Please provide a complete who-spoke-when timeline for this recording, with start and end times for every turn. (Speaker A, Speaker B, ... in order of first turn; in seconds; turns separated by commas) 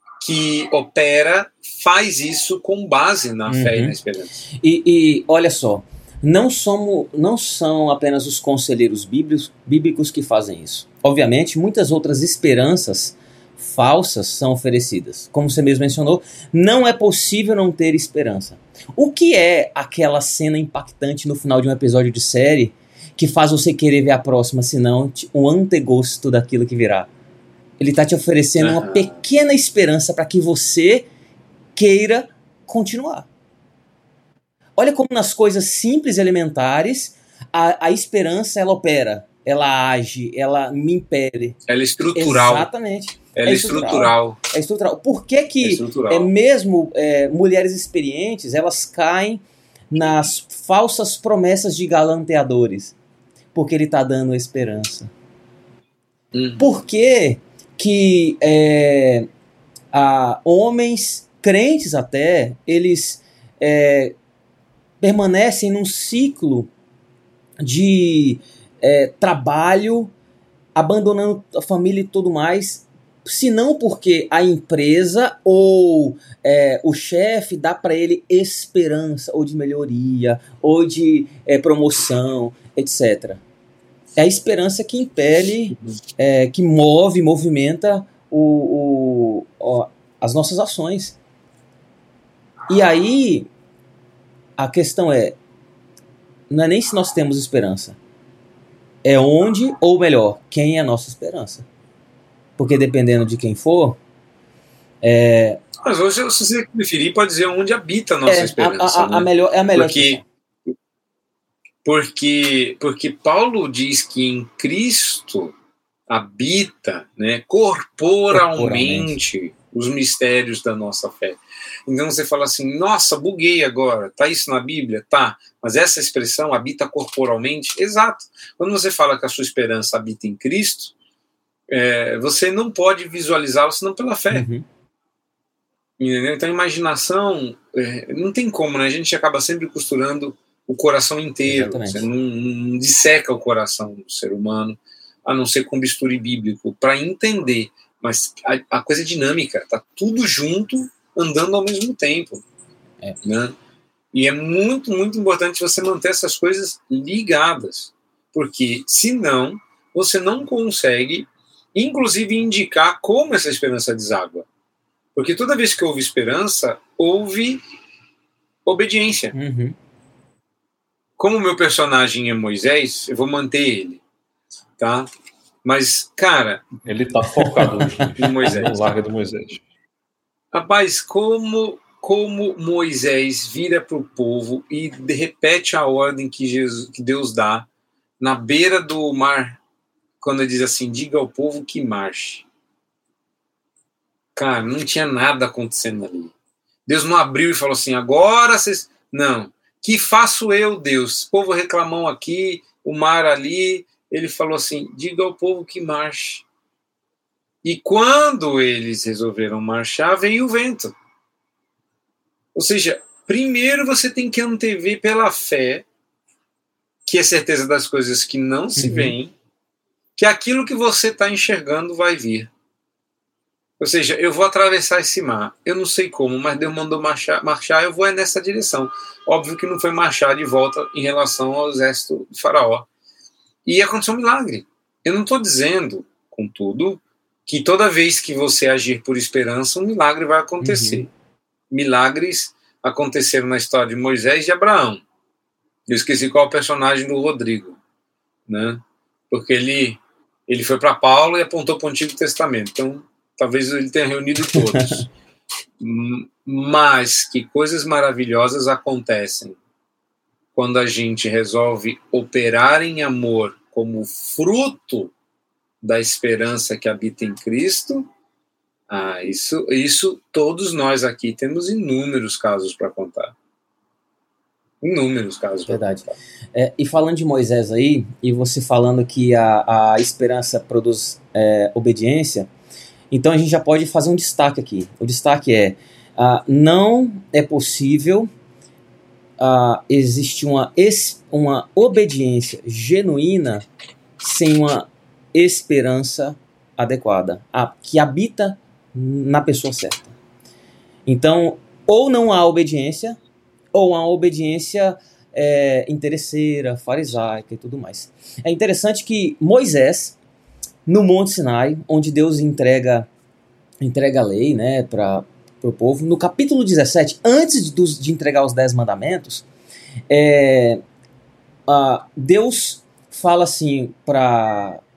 Speaker A: 0.2-4.4, Speaker B: 3.5-4.0, Speaker B: 4.6-27.1, Speaker B: 27.8-31.1, Speaker A: 28.6-29.2, Speaker B: 31.8-33.3, Speaker B: 34.8-41.6, Speaker A: 41.7-42.7, Speaker B: 42.1-53.0, Speaker A: 43.3-44.4, Speaker A: 45.6-46.3, Speaker B: 53.5-55.1, Speaker A: 56.3-56.7, Speaker B: 56.6-59.3, Speaker B: 59.9-64.2, Speaker B: 65.0-66.7, Speaker B: 67.6-70.1, Speaker B: 70.8-83.4, Speaker B: 84.2-91.2, Speaker B: 92.7-93.5, Speaker B: 94.6-95.4, Speaker B: 96.5-98.0, Speaker B: 99.0-101.7, Speaker B: 102.6-104.0, Speaker B: 105.0-105.6, Speaker A: 105.8-110.2, Speaker B: 108.3-110.2, Speaker A: 111.8-115.5, Speaker A: 116.1-130.9, Speaker B: 118.3-119.2, Speaker A: 131.7-134.5, Speaker B: 134.3-134.7, Speaker A: 136.0-152.4, Speaker B: 141.5-142.1, Speaker A: 153.2-153.6, Speaker A: 154.1-164.5, Speaker A: 165.2-167.6, Speaker A: 168.7-169.3, Speaker B: 169.3-169.8, Speaker A: 171.2-174.0, Speaker A: 174.8-175.1, Speaker A: 175.6-176.7, Speaker C: 176.8-179.6, Speaker B: 177.4-177.7, Speaker A: 178.2-178.9, Speaker A: 180.5-187.7, Speaker A: 188.2-189.6, Speaker A: 190.2-192.4, Speaker A: 194.4-196.3, Speaker A: 196.9-206.4, Speaker A: 207.6-210.9, Speaker A: 212.6-215.9, Speaker A: 217.1-219.3, Speaker B: 218.8-219.2, Speaker A: 220.2-222.5, Speaker A: 223.8-232.9, Speaker A: 233.7-241.1, Speaker B: 240.6-241.1, Speaker A: 241.7-245.0, Speaker A: 245.9-247.8, Speaker A: 248.5-255.1, Speaker B: 254.5-255.1, Speaker A: 255.8-259.6, Speaker A: 260.6-265.1, Speaker A: 265.8-268.1, Speaker A: 268.9-273.4, Speaker A: 274.8-275.9, Speaker B: 275.7-282.5, Speaker B: 283.1-288.3, Speaker B: 289.4-293.7, Speaker B: 294.2-300.1, Speaker B: 301.1-303.2, Speaker B: 303.7-310.2, Speaker B: 310.9-313.1, Speaker B: 313.8-319.4, Speaker B: 320.1-320.8, Speaker B: 321.7-324.8